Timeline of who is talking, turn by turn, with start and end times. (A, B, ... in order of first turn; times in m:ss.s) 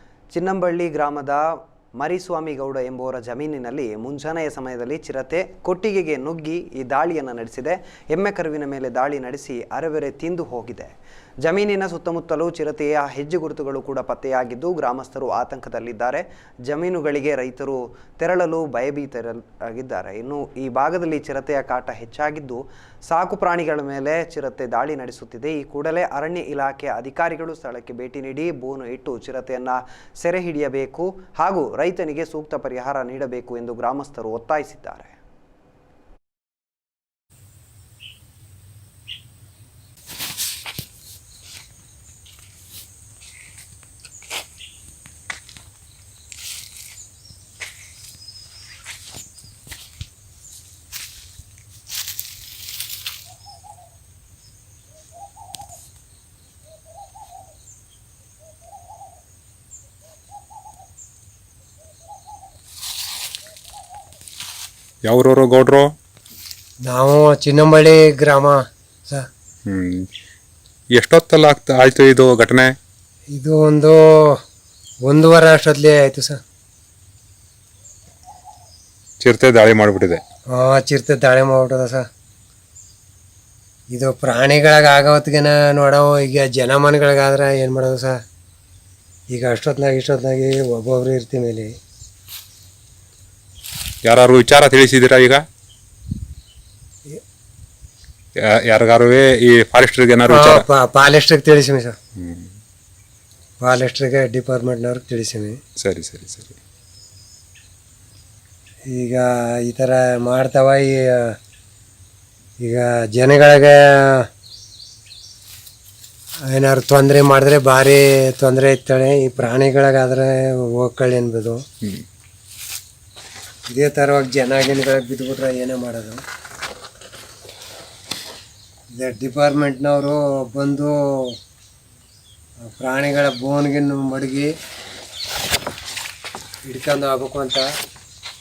0:00.3-0:35.2 A
1:05.0-1:05.9 B
1:06.8-1:09.3 C
1:09.7-1:10.0 B
1:11.0-1:12.7 B
1:13.3-1:14.4 C
1:15.1-1:16.4 C
1:19.2-1:20.2 B
1:20.5-1:22.0 C
1:23.9-1:28.2 C
1:29.3-1:31.7 C
1:34.0-1:35.4 B
1:38.6-1:40.6 B
1:40.3-1:41.9 C
1:42.2-1:42.5 B
1:43.6-1:45.6 C
1:45.8-1:46.6 B
1:48.9-1:51.3 C
1:52.6-1:53.8 C
1:56.5-2:01.6 C
2:03.7-2:06.2 C
2:09.0-2:11.3 C
2:12.6-2:14.5 C
2:16.7-2:17.6 C